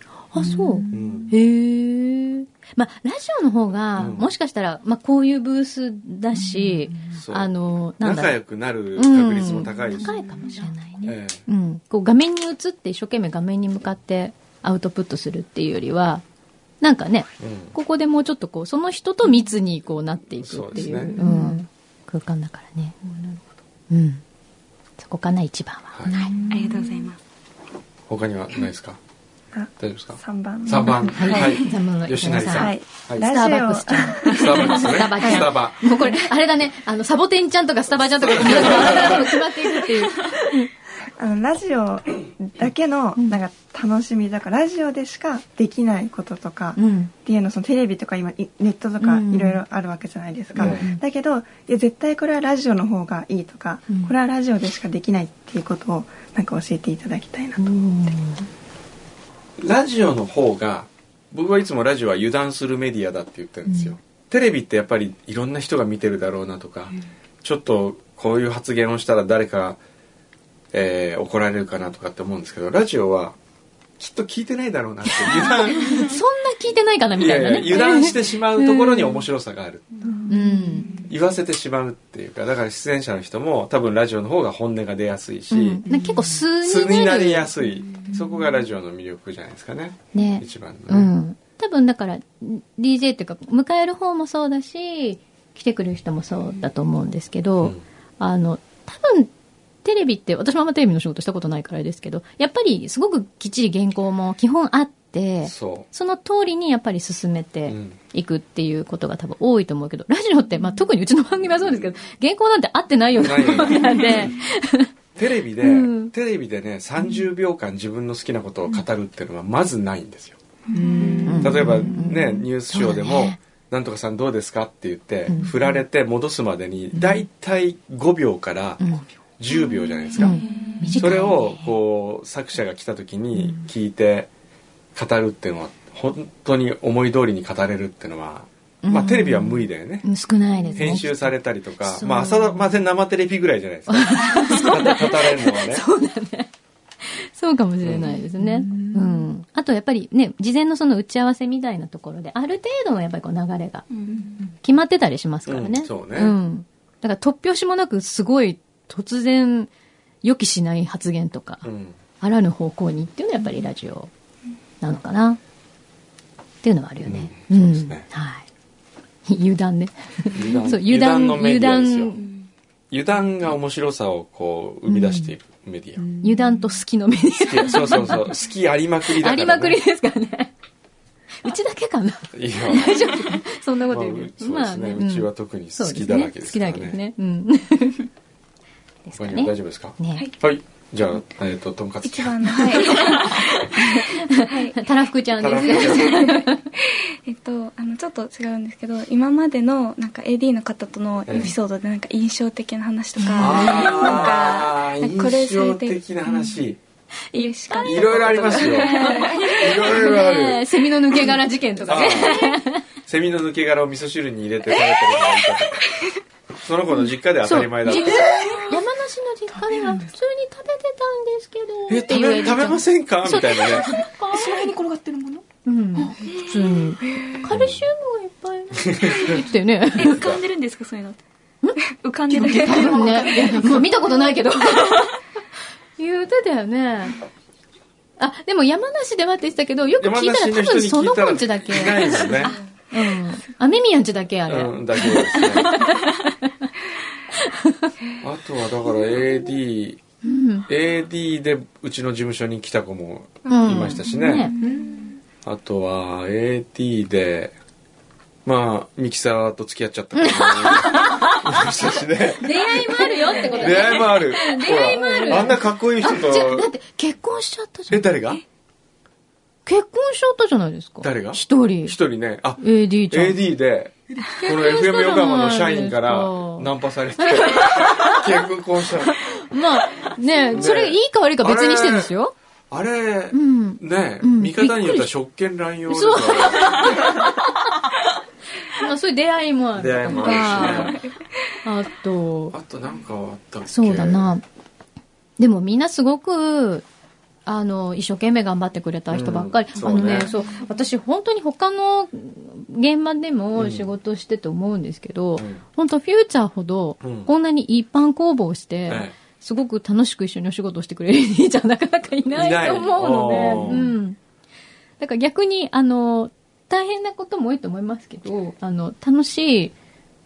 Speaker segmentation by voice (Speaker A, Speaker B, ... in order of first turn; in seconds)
Speaker A: 0.3-8.4, 9.0-16.2, 16.8-23.1, 23.9-24.2, 25.0-26.4, 30.8-40.7, 46.8-47.1, 49.0-49.6, 50.6-51.0, 53.9-54.1, 57.6-58.5, 75.2-79.2, 80.3-80.9, 85.5-87.5, 90.1-99.3, 99.8-114.9, 115.6-116.1, 121.1-123.4, 125.3-125.5, 127.0-127.2, 128.8-129.1, 130.2-131.7, 133.4-133.7, 138.8-142.7, 143.9-146.5, 147.0-153.9, 154.6-159.7, 160.2-161.7, 162.2-164.1, 164.8-165.4, 166.6-168.4, 169.3-172.3, 174.9-175.3, 176.2-178.5, 179.1-180.5, 181.4-188.1, 189.1-190.3, 193.9-196.6, 203.2-204.2, 207.3-212.8, 217.4-224.1, 225.7-230.3, 232.3-235.2, 236.0-237.2, 238.2-246.7, 247.4-247.9, 250.2-250.7, 253.5-254.5, 260.1-261.7, 262.4-268.1, 269.7-272.0, 272.6-273.4, 274.4-278.3, 279.1-282.4, 283.3-285.1, 285.9-287.7, 288.7-291.1, 291.6-292.6, 293.7-294.4, 295.4-296.9, 297.5-314.2, 315.0-319.7
Speaker B: 0.3-1.4, 6.3-7.2, 9.7-10.8, 21.1-21.6, 26.1-27.1, 80.0-81.1, 85.8-86.4, 87.9-88.5, 120.7-122.2, 130.3-131.1, 148.0-149.3, 154.1-154.5, 176.0-176.8, 217.9-218.8, 219.5-220.1, 223.9-225.4, 226.0-226.3, 232.3-234.3, 254.6-255.1, 265.2-265.6
Speaker C: 0.9-1.3, 4.0-4.3, 7.2-10.2, 11.0-11.4, 17.4-17.8, 20.4-21.1, 28.1-29.0, 29.8-33.3, 34.2-35.8, 38.1-39.4, 50.6-50.9, 59.6-69.8, 70.7-73.4, 74.0-76.2, 77.2-80.0, 81.0-85.9, 86.6-91.1, 105.5-105.9, 107.7-108.0, 111.5-111.8, 113.2-114.4, 115.2-120.4, 121.4-130.4, 130.9-134.3, 134.9-140.1, 140.7-145.9, 147.8-148.1, 155.5-156.4, 161.6-162.0, 167.1-168.1, 170.3-172.2, 172.9-176.1, 177.4-179.8, 182.3-187.0, 189.2-192.9, 195.4-196.3, 201.3-201.5, 203.4-206.8, 207.8-210.7, 211.8-215.9, 216.6-218.6, 221.9-224.0, 227.5-227.8, 228.9-229.3, 240.0-242.6, 244.5-245.8, 248.2-250.0, 250.7-254.5, 255.4-257.6, 258.4-266.7, 267.9-268.4, 271.0-279.3, 280.5-282.1, 282.7-287.0, 289.8-291.0, 292.5-294.3, 299.1-300.3, 303.6-303.9, 305.4-305.6, 307.0-307.3, 308.9-309.1, 312.3-314.0
Speaker D: 26.5-27.2, 229.9-231.2, 232.0-233.5
Speaker E: 29.6-31.5, 32.4-35.4, 41.2-57.6
Speaker F: 192.0-193.8, 194.4-194.9, 195.6-206.0, 207.3-209.8, 253.5-254.8, 290.3-290.8